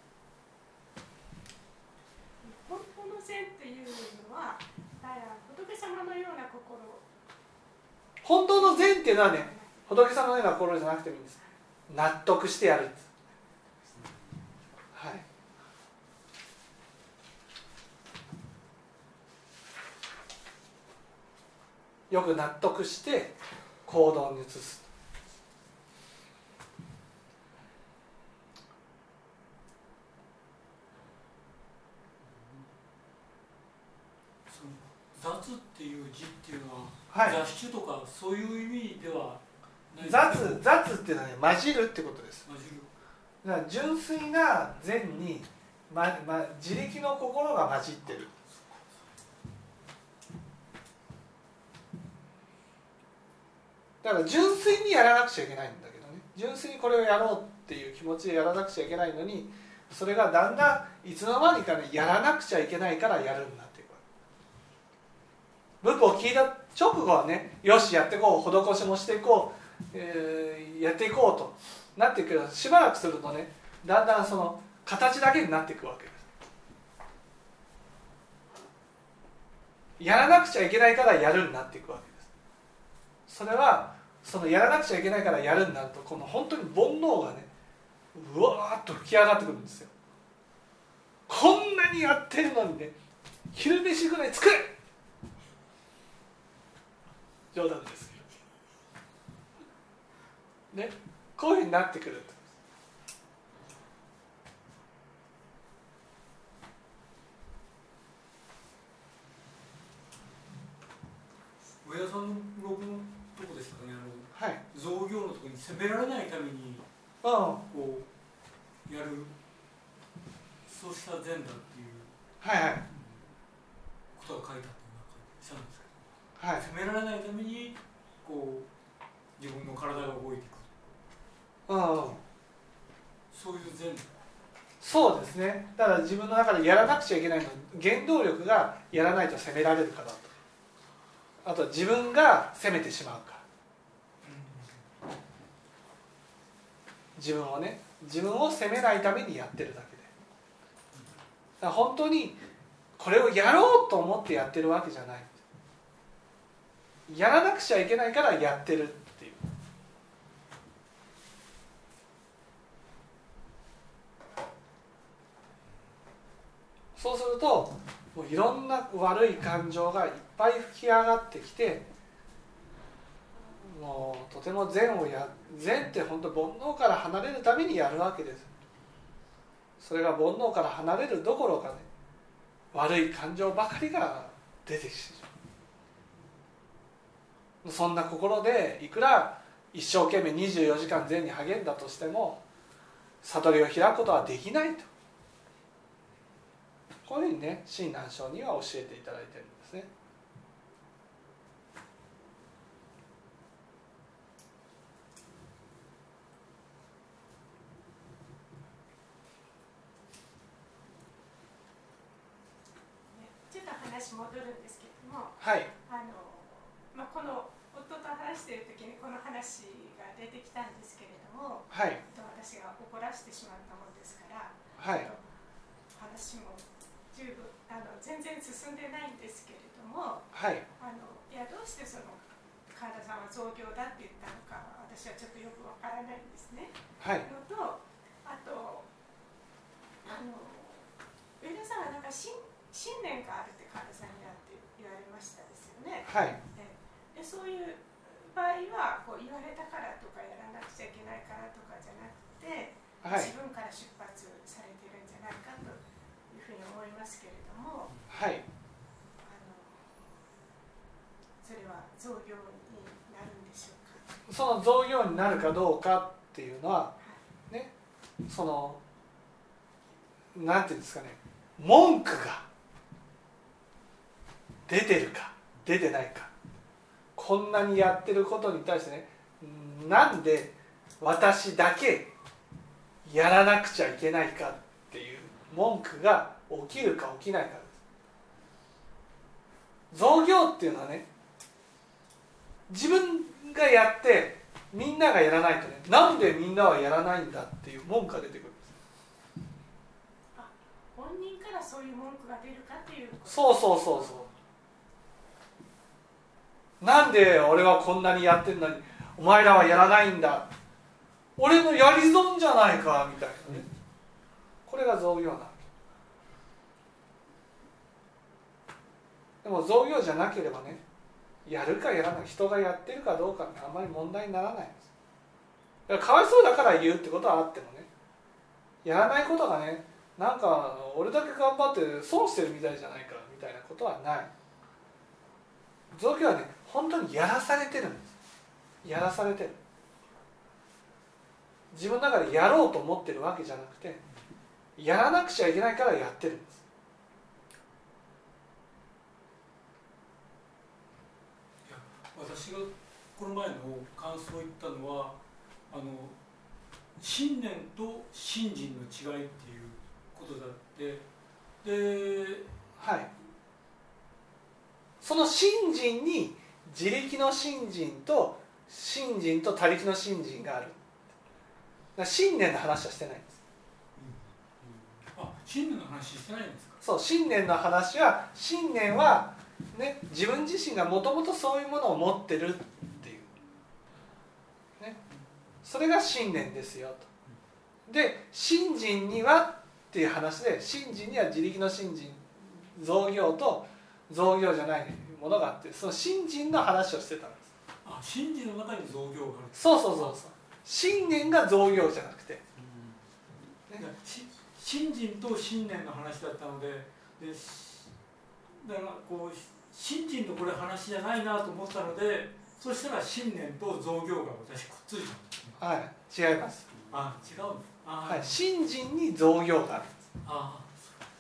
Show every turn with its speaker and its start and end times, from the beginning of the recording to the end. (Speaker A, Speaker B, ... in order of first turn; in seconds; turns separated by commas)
Speaker A: 2.4-7.1, Speaker B: 8.2-11.4, Speaker A: 8.6-9.8, Speaker B: 11.9-13.1, Speaker B: 14.9-15.2, Speaker B: 22.1-24.9, Speaker C: 34.5-40.6, Speaker B: 37.1-37.4, Speaker B: 40.0-42.5, Speaker C: 42.5-42.9, Speaker B: 43.4-48.3, Speaker B: 54.0-64.0, Speaker B: 65.8-76.3, Speaker B: 80.0-82.3, Speaker B: 83.3-87.5, Speaker B: 88.1-89.9, Speaker B: 91.3-93.0, Speaker B: 93.5-94.8, Speaker B: 97.5-98.2, Speaker B: 100.7-102.4, Speaker C: 111.8-116.8, Speaker B: 114.3-114.6, Speaker B: 117.2-117.6, Speaker C: 117.7-118.1, Speaker C: 118.9-119.3, Speaker C: 120.7-122.1, Speaker B: 122.4-122.8, Speaker C: 122.9-123.2, Speaker C: 124.1-125.9, Speaker B: 126.4-126.7, Speaker C: 126.6-128.7, Speaker C: 129.4-130.7, Speaker B: 131.7-132.2, Speaker C: 133.3-134.1, Speaker B: 134.8-140.3, Speaker B: 141.4-143.4, Speaker C: 144.2-144.7, Speaker B: 147.2-150.1, Speaker B: 151.6-152.4, Speaker B: 153.0-155.4, Speaker B: 157.1-159.4, Speaker B: 167.0-171.9, Speaker B: 173.6-178.5, Speaker B: 179.8-181.9, Speaker B: 182.7-185.3, Speaker B: 187.6-192.4, Speaker B: 193.2-194.9, Speaker B: 197.1-199.9, Speaker A: 213.1-225.2, Speaker B: 215.4-215.7, Speaker B: 221.7-222.0, Speaker B: 224.8-225.1, Speaker A: 225.9-238.9, Speaker B: 230.3-230.7, Speaker B: 237.0-237.3, Speaker A: 240.0-240.9, Speaker A: 241.4-257.9, Speaker B: 246.1-246.4, Speaker B: 253.0-253.3, Speaker B: 258.1-258.4, Speaker A: 259.2-260.1, Speaker A: 261.4-264.0, Speaker B: 264.3-266.9, Speaker B: 268.3-268.8, Speaker B: 270.3-272.5, Speaker B: 274.7-276.3, Speaker B: 277.2-282.1, Speaker B: 283.1-287.8, Speaker B: 289.9-291.1, Speaker B: 292.7-298.8, Speaker A: 300.4-304.3, Speaker B: 303.3-304.3, Speaker B: 306.8-310.5, Speaker B: 311.4-313.7, Speaker B: 314.7-315.6, Speaker B: 319.4-320.8, Speaker B: 321.4-324.8, Speaker B: 325.9-327.9, Speaker B: 328.8-334.3, Speaker B: 335.9-338.1, Speaker B: 338.8-339.6, Speaker B: 341.7-344.0, Speaker B: 344.8-346.6, Speaker C: 351.6-355.2, Speaker C: 355.7-356.2, Speaker C: 357.0-361.1, Speaker C: 361.6-362.6, Speaker B: 362.8-363.1, Speaker B: 365.0-370.8, Speaker B: 372.0-373.4, Speaker C: 374.0-376.8, Speaker B: 376.8-383.3, Speaker B: 385.6-387.1, Speaker B: 387.9-397.5, Speaker C: 397.9-400.2, Speaker B: 399.6-402.4, Speaker C: 402.6-402.9, Speaker C: 403.8-407.9, Speaker C: 408.5-415.6, Speaker B: 415.6-416.7, Speaker C: 416.9-418.4, Speaker B: 418.1-420.1, Speaker C: 420.2-420.9